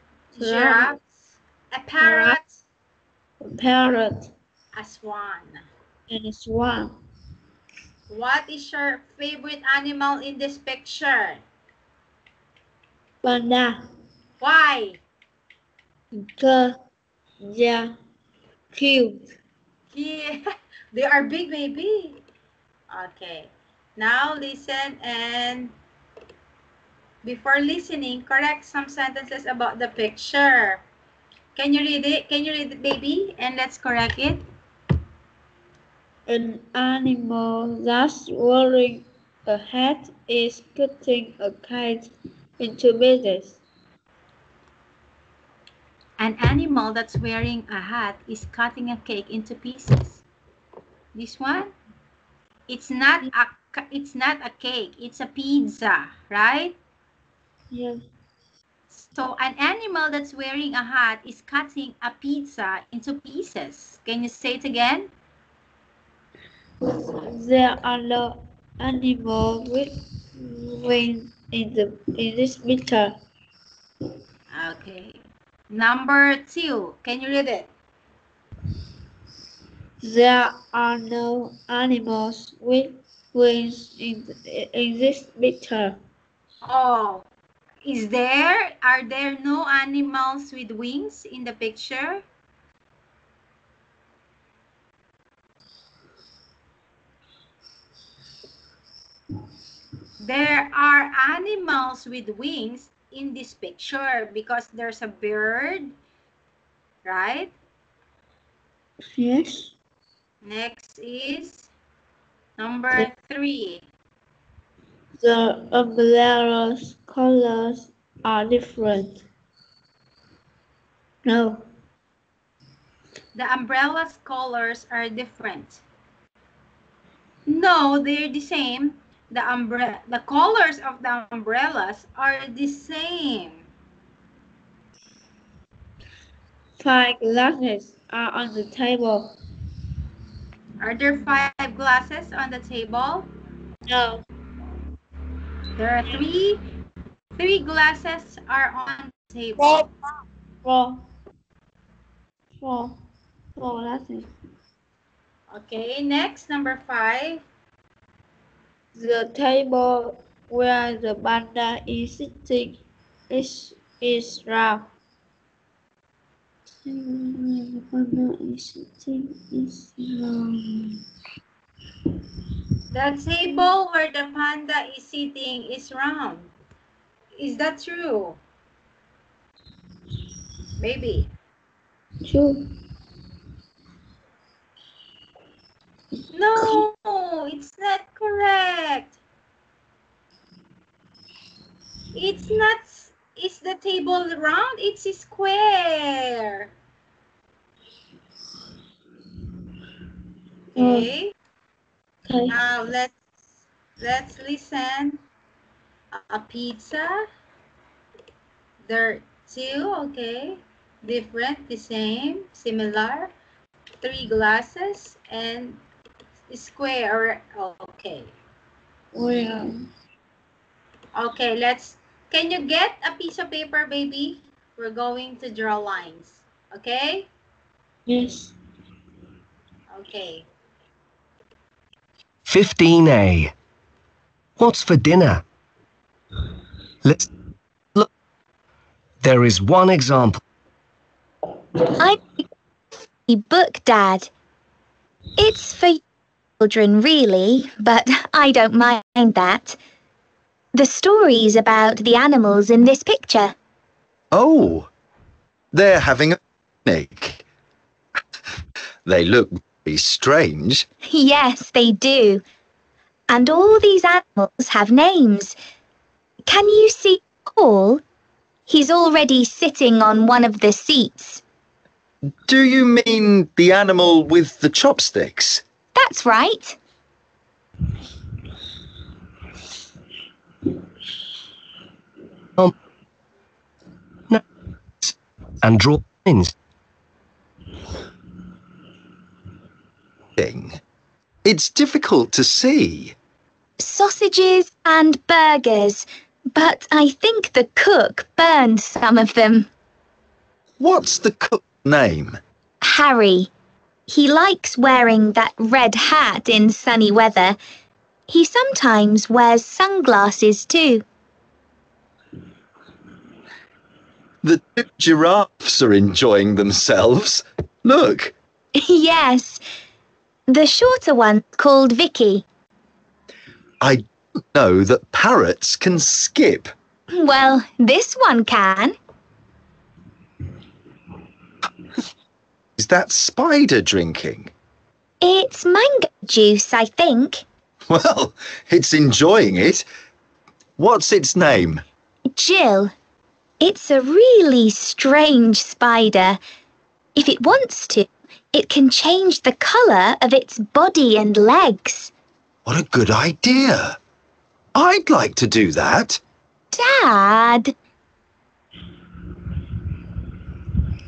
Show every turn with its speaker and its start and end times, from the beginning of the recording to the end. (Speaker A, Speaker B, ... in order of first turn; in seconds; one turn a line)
Speaker A: 0.3-1.0
Speaker B: 0.3-1.0
Speaker B: 1.7-2.6
Speaker A: 2.0-2.4
Speaker A: 3.4-4.3
Speaker B: 4.7-5.7
Speaker A: 6.1-6.9
Speaker B: 8.1-11.4
Speaker A: 13.2-13.8
Speaker B: 14.4-15.0
Speaker A: 16.1-16.8
Speaker A: 17.4-17.9
Speaker A: 18.7-19.3
Speaker B: 19.9-22.2
Speaker B: 22.9-25.7
Speaker B: 27.2-30.8
Speaker B: 31.5-34.4
Speaker A: 36.3-43.6
Speaker B: 46.2-50.2
Speaker B: 51.1-51.7
Speaker B: 52.7-56.8
Speaker A: 57.7-58.0
Speaker B: 58.9-65.1
Speaker A: 66.8-73.2
Speaker B: 74.5-77.7
Speaker A: 80.0-86.0
Speaker B: 86.6-87.3
Speaker B: 87.8-92.2
Speaker B: 100.2-106.0
Speaker B: 107.0-107.5
Speaker A: 109.1-109.7
Speaker B: 110.4-111.7
Speaker B: 112.6-113.9
Speaker A: 115.2-119.2
Speaker A: 121.2-121.7
Speaker B: 123.3-125.8
Speaker B: 127.5-133.7
Speaker A: 136.8-139.4
Speaker B: 140.8-143.3
Speaker A: 143.9-144.2
Speaker B: 145.8-146.6
Speaker B: 147.4-149.8
Speaker A: 149.6-151.1
Speaker A: 152.6-153.0
Speaker A: 153.6-154.3
Speaker B: 155.5-157.4
Speaker A: 158.9-164.9
Speaker A: 166.8-171.0
Speaker B: 172.9-176.5
Speaker B: 177.3-178.4
Speaker B: 180.8-181.3
Speaker A: 182.2-182.7
Speaker B: 186.3-189.2
Speaker A: 186.6-186.8
Speaker B: 192.1-196.7
Speaker B: 200.7-201.3
Speaker A: 200.8-201.1
Speaker A: 202.2-202.6
Speaker B: 202.5-203.1
Speaker B: 204.0-205.2
Speaker B: 206.1-207.2
Speaker B: 208.8-213.3
Speaker B: 214.0-215.8
Speaker B: 216.5-218.3
Speaker A: 219.1-219.8
Speaker B: 221.1-227.3
Speaker A: 228.1-228.5
Speaker B: 229.9-230.5
Speaker C: 232.5-233.5
Speaker C: 234.6-235.4
Speaker C: 237.0-237.3
Speaker C: 239.2-240.4
Speaker D: 241.9-242.4
Speaker D: 243.3-244.3
Speaker D: 245.4-246.0
Speaker D: 246.6-249.8
Speaker D: 250.7-253.5
Speaker E: 254.3-254.9
Speaker E: 255.7-257.4
Speaker E: 259.1-260.9
Speaker D: 261.0-262.4
Speaker D: 263.3-265.6
Speaker D: 266.5-268.0
Speaker D: 268.7-271.4
Speaker E: 272.5-275.6
Speaker D: 275.9-276.8
Speaker C: 285.0-286.5
Speaker E: 290.4-290.8
Speaker E: 291.4-293.1
Speaker D: 293.8-299.7
Speaker E: 300.8-302.4
Speaker D: 302.8-303.5
Speaker D: 304.1-307.6
Speaker D: 308.3-311.0
Speaker E: 314.4-318.4
Speaker D: 318.8-319.6
Speaker D: 320.5-322.4
Speaker E: 323.8-326.7
Speaker D: 327.1-329.0
Speaker E: 332.8-334.5
Speaker D: 335.2-337.4
Speaker E: 337.9-339.9
Speaker E: 340.8-341.8
Speaker D: 342.3-342.9
Speaker D: 343.6-346.4
Speaker D: 347.1-352.1
Speaker E: 352.6-354.0
Speaker E: 354.8-356.2
Speaker D: 356.7-357.7